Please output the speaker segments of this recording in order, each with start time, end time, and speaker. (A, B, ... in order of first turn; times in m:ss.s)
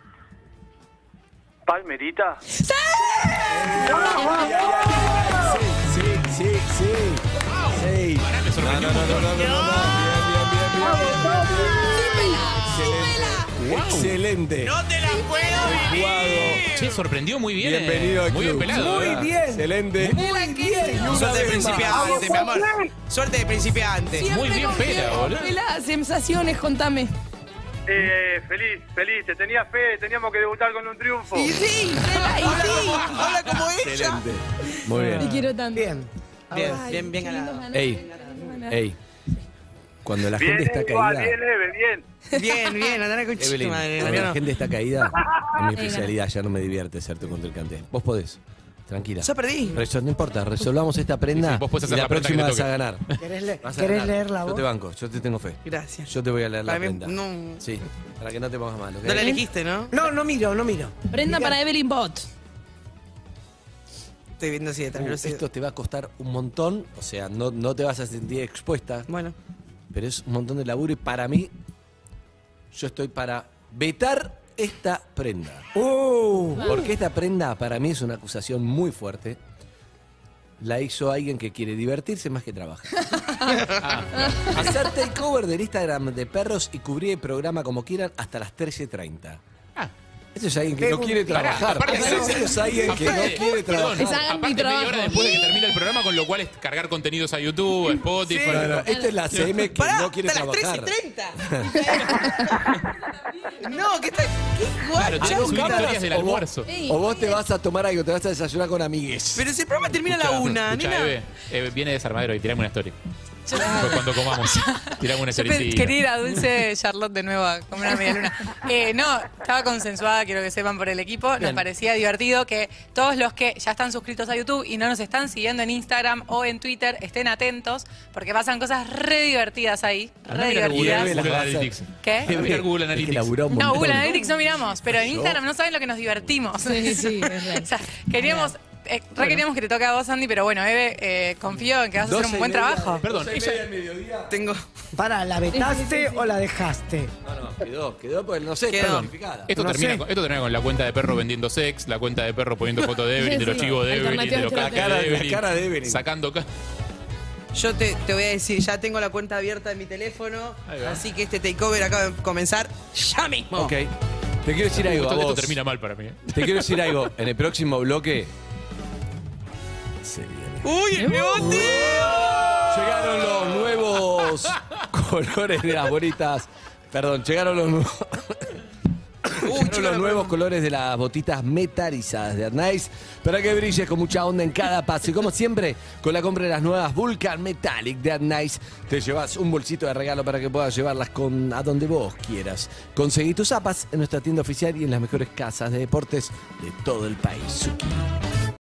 0:01.7-0:02.4 A
0:02.5-0:04.4 B
0:03.5-0:12.0 C
0:03.5-0:05.6 D
0:07.5-0:09.7 E
0:10.7-0:12.5 D
0:11.8-0:13.4 B
0:12.5-0:14.9 C
0:13.5-0:14.2 E
0:14.9-0:16.9 F
0:14.9-0:16.5 A
0:15.6-0:16.7 C
0:16.7-0:19.3 E
0:17.6-0:20.2 C
0:18.6-0:22.7 D
0:20.2-0:21.1 B
0:20.8-0:22.3 C
0:21.1-0:24.3 F
0:24.1-0:27.1 B
0:24.3-0:25.5 E
0:27.9-0:31.5 A
0:31.4-0:33.1 B
0:31.4-0:34.2 F
0:33.1-0:35.5 C
0:34.9-0:35.9 B
0:35.7-0:36.9 D
0:36.5-0:37.7 F
0:36.6-0:38.8 B
0:37.7-0:38.1 C
0:38.6-0:39.0 C
0:40.0-0:41.4 C
0:40.4-0:42.0 A
0:42.3-0:44.4 F
0:43.4-0:53.1 C
0:45.8-0:46.1 B
0:49.2-0:49.8 F
0:51.3-0:52.7 E
0:53.2-0:54.6 D
0:53.6-0:59.4 C
0:55.6-0:56.1 F
0:56.6-0:57.6 F
0:59.0-1:00.0 F
0:59.9-1:01.6 D
1:01.1-1:02.3 B
1:04.4-1:05.4 F
1:04.9-1:09.1 C
1:09.1-1:09.4 F
1:09.9-1:11.5 C
1:12.7-1:15.7 C
1:15.7-1:16.8 D
1:16.6-1:16.9 B
1:16.6-1:19.4 C
1:20.6-1:23.2 C
1:23.2-1:23.5 B
1:23.7-1:24.7 E
1:24.2-1:24.5 B
1:24.5-1:29.4 C
1:30.3-1:34.3 C
1:30.8-1:33.1 D
1:31.3-1:39.7 E
1:33.5-1:35.7 B
1:38.1-1:38.8 F
1:38.4-1:41.8 C
1:39.7-1:42.8 F
1:42.0-1:42.5 B
1:43.6-1:46.0 F
1:45.0-1:46.7 E
1:45.0-1:49.5 C
1:46.7-1:47.4 B
1:49.4-1:51.2 F
1:50.1-1:53.0 E
1:53.5-1:53.8 G
1:53.6-1:54.1 B
1:53.6-1:56.0 E
1:54.4-2:11.1 G
2:01.4-2:01.7 C
2:10.3-2:13.5 E
2:10.5-2:15.4 C
2:12.0-2:12.3 G
2:13.6-2:23.0 G
2:16.6-2:17.7 B
2:18.2-2:18.5 B
2:22.0-2:24.4 C
2:23.0-2:23.6 E
2:24.3-2:24.6 F
2:25.0-2:27.1 D
2:25.5-2:26.3 B
2:27.2-2:29.5 C
2:28.7-2:29.1 F
2:28.8-2:36.5 E
2:29.5-2:30.0 D
2:33.2-2:34.9 B
2:34.5-2:36.0 C
2:37.5-2:43.8 F
2:40.7-2:41.0 E
2:43.5-2:45.6 C
2:44.8-2:46.8 E
2:46.3-2:48.3 C
2:50.0-2:50.8 C
2:50.6-2:53.4 F
2:51.0-2:51.7 B
2:51.4-2:58.6 C
2:59.4-3:18.1 C
2:59.4-3:00.3 F